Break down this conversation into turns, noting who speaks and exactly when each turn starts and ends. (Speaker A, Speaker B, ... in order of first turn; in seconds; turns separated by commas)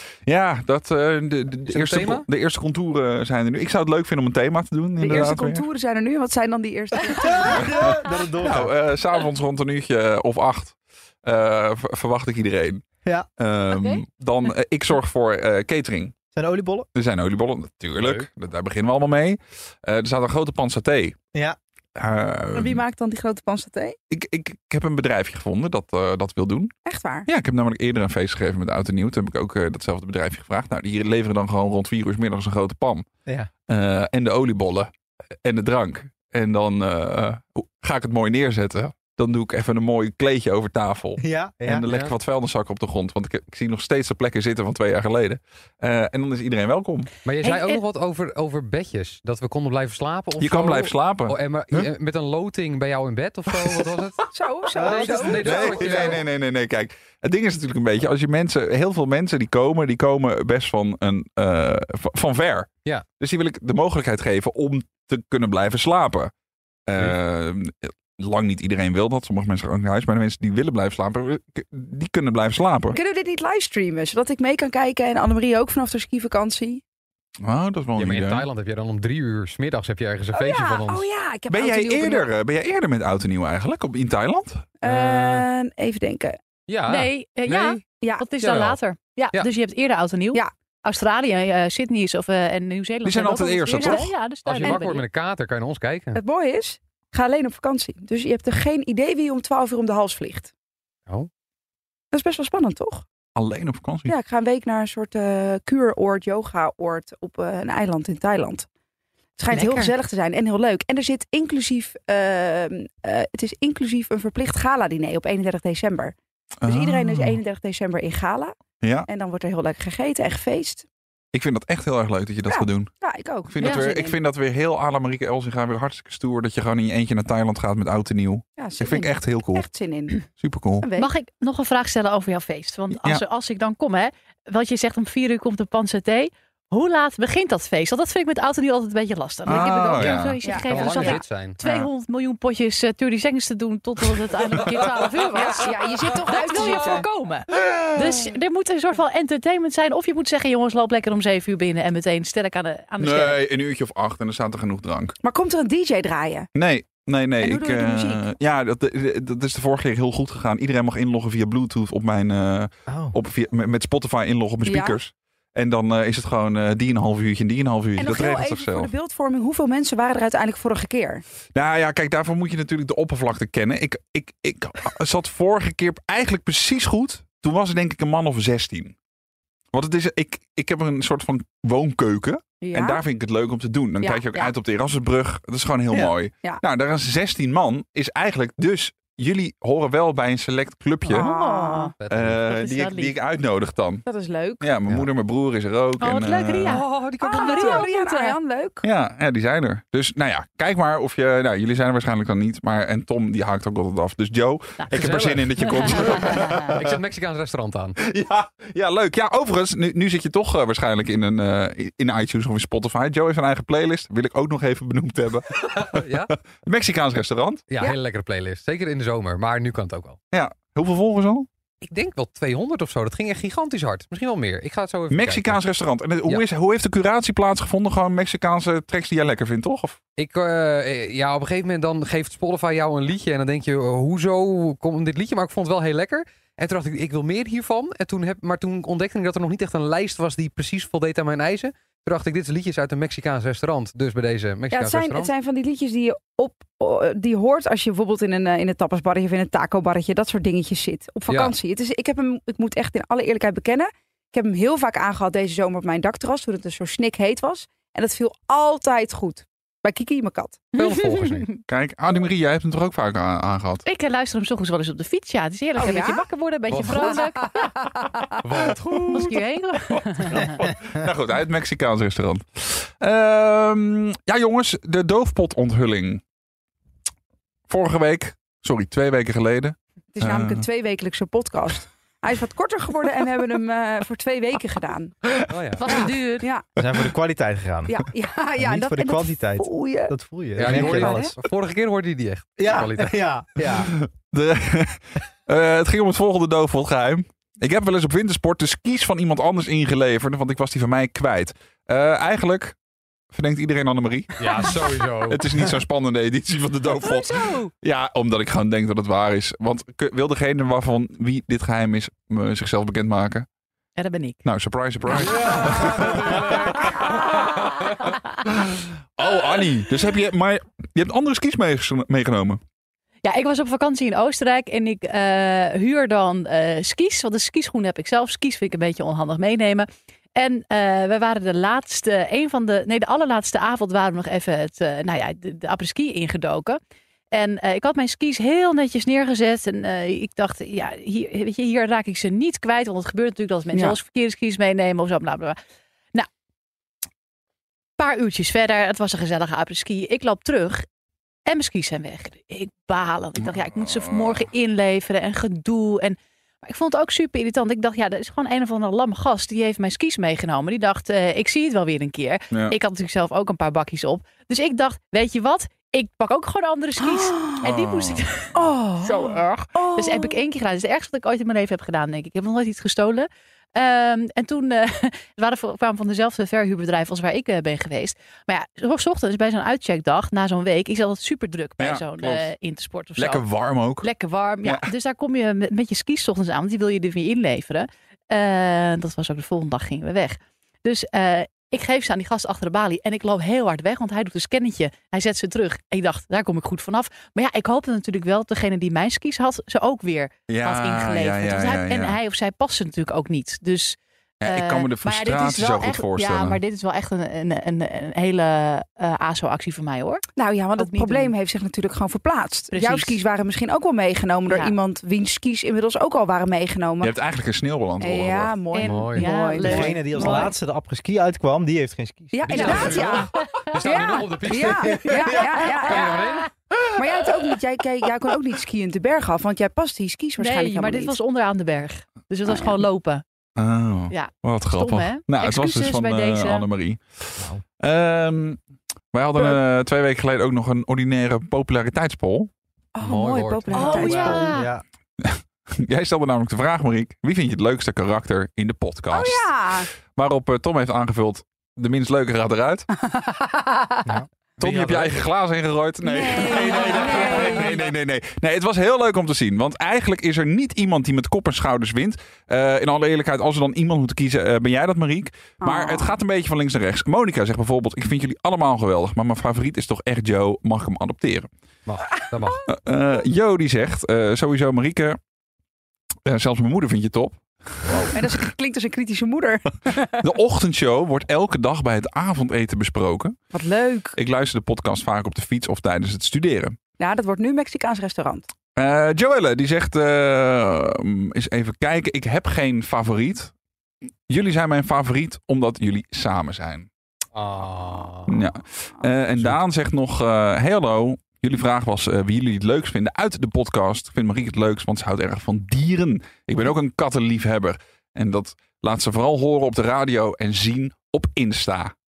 Speaker A: 0.3-5.7, Speaker B: 1.7-2.3, Speaker C: 5.0-7.7, Speaker D: 7.3-8.7, Speaker A: 7.4-12.8, Speaker A: 13.4-16.1, Speaker E: 13.7-14.0, Speaker D: 16.3-16.9, Speaker A: 16.9-21.2, Speaker A: 22.0-22.8, Speaker C: 22.6-24.0, Speaker A: 24.1-26.7, Speaker C: 26.9-27.3, Speaker A: 27.3-33.1, Speaker A: 33.7-34.9, Speaker A: 35.4-47.1, Speaker D: 41.2-41.9, Speaker B: 41.9-42.1, Speaker B: 47.2-54.2, Speaker E: 47.4-47.8, Speaker A: 50.4-51.9, Speaker C: 54.3-56.0, Speaker D: 54.8-56.2, Speaker B: 54.8-56.2, Speaker A: 55.4-66.3, Speaker A: 66.9-73.0, Speaker C: 72.9-76.8, Speaker A: 77.4-78.5, Speaker B: 78.0-81.1, Speaker C: 80.3-82.3, Speaker A: 81.5-84.7, Speaker C: 84.8-86.4, Speaker B: 86.7-87.8, Speaker E: 86.9-95.0, Speaker C: 88.0-88.3, Speaker B: 88.4-88.8, Speaker A: 93.0-94.1, Speaker C: 93.8-94.1, Speaker B: 94.5-96.2, Speaker C: 96.2-100.5, Speaker C: 102.1-103.0, Speaker A: 103.4-104.1, Speaker C: 104.1-108.7, Speaker C: 109.4-116.2, Speaker E: 109.5-109.9, Speaker A: 116.6-117.4, Speaker C: 116.7-118.5, Speaker A: 118.8-119.1, Speaker C: 119.1-120.9, Speaker A: 121.3-122.9, Speaker C: 122.5-124.2, Speaker A: 123.5-129.7, Speaker E: 123.6-123.9, Speaker C: 128.6-130.2, Speaker A: 130.2-130.9, Speaker C: 130.8-131.1, Speaker E: 131.0-153.4, Speaker A: 132.9-133.2, Speaker A: 139.5-140.4, Speaker C: 139.5-141.2, Speaker B: 140.6-141.6, Speaker A: 141.6-141.9, Speaker C: 145.3-147.1, Speaker A: 147.6-147.9, Speaker A: 153.0-155.2, Speaker C: 155.2-156.5, Speaker A: 156.6-168.9, Speaker C: 157.4-158.3, Speaker D: 162.9-163.2, Speaker C: 164.7-165.0, Speaker C: 168.0-171.2, Speaker A: 171.6-179.0, Speaker A: 179.7-191.3, Speaker C: 182.6-183.0, Speaker C: 184.0-184.5, Speaker C: 191.1-191.9, Speaker E: 191.2-193.2, Speaker B: 191.9-192.4, Speaker A: 192.1-194.1, Speaker C: 194.1-194.7, Speaker A: 194.6-196.8, Speaker E: 196.0-198.4, Speaker B: 196.7-197.2, Speaker C: 197.2-198.8, Speaker A: 198.8-206.8, Speaker B: 204.9-208.0, Speaker E: 205.7-206.7, Speaker A: 208.0-217.6, Speaker B: 215.6-216.3, Speaker B: 217.7-220.2, Speaker A: 220.3-221.5, Speaker B: 221.8-225.6, Speaker A: 225.1-230.0, Speaker B: 230.2-245.3, Speaker C: 244.7-260.7, Speaker B: 251.3-251.6, Speaker B: 260.8-261.5, Speaker E: 260.8-261.6, Speaker A: 261.7-263.8, Speaker E: 263.9-267.7, Speaker C: 265.8-266.3, Speaker B: 266.7-267.3, Speaker C: 267.6-268.0, Speaker B: 268.4-269.2, Speaker A: 268.6-269.3, Speaker E: 269.1-270.6, Speaker A: 270.0-276.2, Speaker A: 277.7-280.6, Speaker C: 280.1-285.3, Speaker B: 285.5-285.9, Speaker E: 285.7-286.5, Speaker C: 285.9-286.7, Speaker D: 286.8-288.0, Speaker C: 287.9-291.1, Speaker D: 288.6-291.3, Speaker B: 290.6-293.2, Speaker D: 292.6-293.9, Speaker A: 293.7-302.8, Speaker A: 303.3-313.5, Speaker B: 304.4-305.4, Speaker E: 306.9-307.7, Speaker E: 314.0-314.4, Speaker A: 314.4-317.7, Speaker B: 315.5-317.2, Speaker E: 317.9-318.3, Speaker A: 318.4-322.6, Speaker E: 323.2-336.8, Speaker E: 337.3-345.6, Speaker C: 343.7-344.0, Speaker E: 348.0-350.9, Speaker E: 351.5-383.5, Speaker A: 353.4-354.4, Speaker A: 362.5-362.8, Speaker C: 367.0-367.6, Speaker A: 367.6-368.3, Speaker C: 368.5-370.4, Speaker A: 381.8-382.5, Speaker A: 383.2-384.1, Speaker E: 384.0-410.2, Speaker A: 384.6-384.9, Speaker A: 400.5-402.2, Speaker A: 404.4-406.6, Speaker C: 410.4-417.2, Speaker E: 410.8-411.3, Speaker E: 412.7-413.2, Speaker E: 414.5-414.8, Speaker A: 417.0-418.5, Speaker C: 418.0-420.5, Speaker E: 418.7-420.5, Speaker B: 418.8-419.3, Speaker D: 419.6-423.2, Speaker C: 422.3-426.4, Speaker B: 422.5-426.5, Speaker A: 422.5-422.8, Speaker E: 423.4-423.7, Speaker E: 424.8-425.3, Speaker E: 425.9-426.5, Speaker C: 427.0-431.2, Speaker E: 430.4-433.2, Speaker C: 432.5-432.8, Speaker A: 433.6-438.6, Speaker E: 434.1-436.7, Speaker A: 439.1-442.5, Speaker C: 442.9-444.5, Speaker B: 443.0-443.9, Speaker E: 443.7-444.7, Speaker D: 443.7-444.8, Speaker A: 445.2-452.9, Speaker C: 449.1-449.9, Speaker C: 453.1-453.5, Speaker D: 454.1-455.2, Speaker A: 454.6-471.5, Speaker C: 456.0-457.8, Speaker D: 456.7-457.7, Speaker C: 465.6-466.2, Speaker B: 471.9-472.6, Speaker A: 472.6-475.2, Speaker A: 476.2-478.2, Speaker C: 477.9-480.2, Speaker A: 480.2-483.4, Speaker C: 483.5-484.1, Speaker A: 484.1-486.8, Speaker C: 487.0-488.5, Speaker A: 488.8-493.5, Speaker A: 494.3-496.9, Speaker B: 497.3-498.4, Speaker A: 498.3-511.9